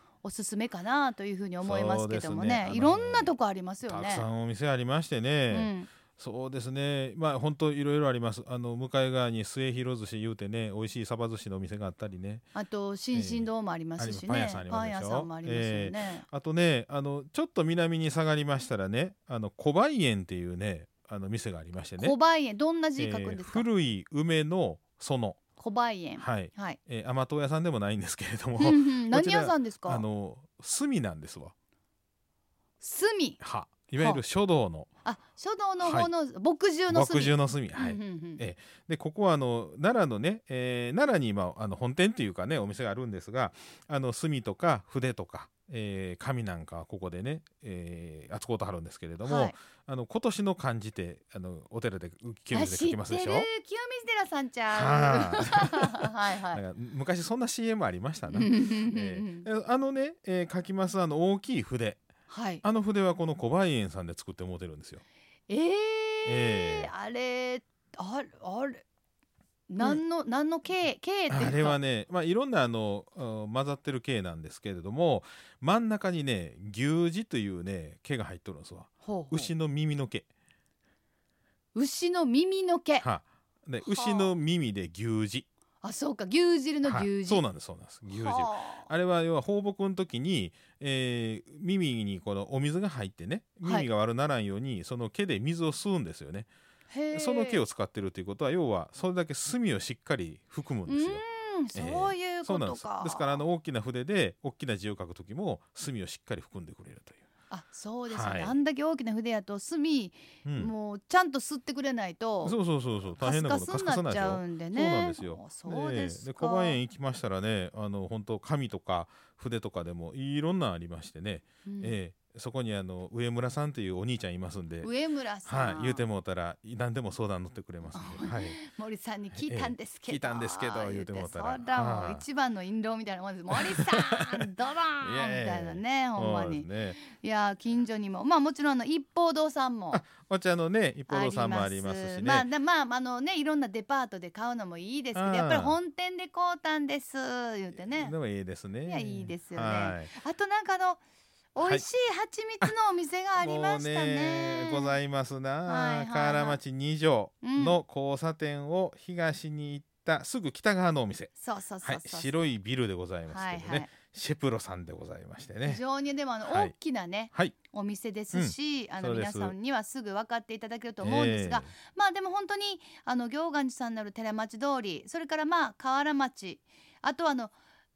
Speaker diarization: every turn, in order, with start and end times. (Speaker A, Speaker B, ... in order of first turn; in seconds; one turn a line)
Speaker A: 0.2-4.3
Speaker B: 1.6-3.3
Speaker B: 3.8-12.4
Speaker A: 5.5-5.9
Speaker A: 12.5-16.2
Speaker B: 13.1-22.1
Speaker A: 22.0-23.6
Speaker B: 23.0-25.4
Speaker A: 25.6-26.8
Speaker B: 26.2-31.5
Speaker A: 28.6-30.0
Speaker A: 32.8-33.4
Speaker B: 33.4-34.9
Speaker A: 35.0-38.4
Speaker B: 35.8-36.1
Speaker B: 36.9-53.5
Speaker A: 49.2-49.5
Speaker A: 52.5-56.6
Speaker B: 54.7-62.0
Speaker A: 58.3-59.5
Speaker A: 62.3-62.6
Speaker B: 62.6-65.0
Speaker A: 65.5-68.8
Speaker B: 66.2-66.9
Speaker A: 69.7-71.8
Speaker B: 71.3-80.2
Speaker A: 79.0-79.5
Speaker A: 81.7-83.0
Speaker B: 83.0-85.5
Speaker A: 83.8-84.3
Speaker A: 85.8-87.4
Speaker B: 86.8-96.5
Speaker A: 88.1-88.9
Speaker A: 96.9-97.6
Speaker B: 97.1-101.2
Speaker A: 100.8-103.4
Speaker B: 101.7-107.2
Speaker A: 107.5-112.6
Speaker B: 108.1-108.5
Speaker B: 110.4-110.7
Speaker B: 112.4-124.9
Speaker A: 113.2-116.8
Speaker A: 121.6-122.0
Speaker A: 124.8-126.0
Speaker B: 125.4-128.6
Speaker A: 127.9-140.0
Speaker B: 129.3-132.2
Speaker B: 133.6-137.0
Speaker B: 139.9-142.5
Speaker A: 141.1-148.1
Speaker B: 145.1-145.8
Speaker B: 147.9-150.1
Speaker A: 148.8-151.0
Speaker A: 151.5-154.9
Speaker B: 151.6-151.8
Speaker B: 153.4-165.8
Speaker A: 155.7-156.6
Speaker A: 157.4-157.8
Speaker A: 161.3-162.3
Speaker A: 163.3-163.9
Speaker A: 165.6-177.5
Speaker B: 166.4-166.7
Speaker B: 168.3-169.6
Speaker B: 171.0-171.7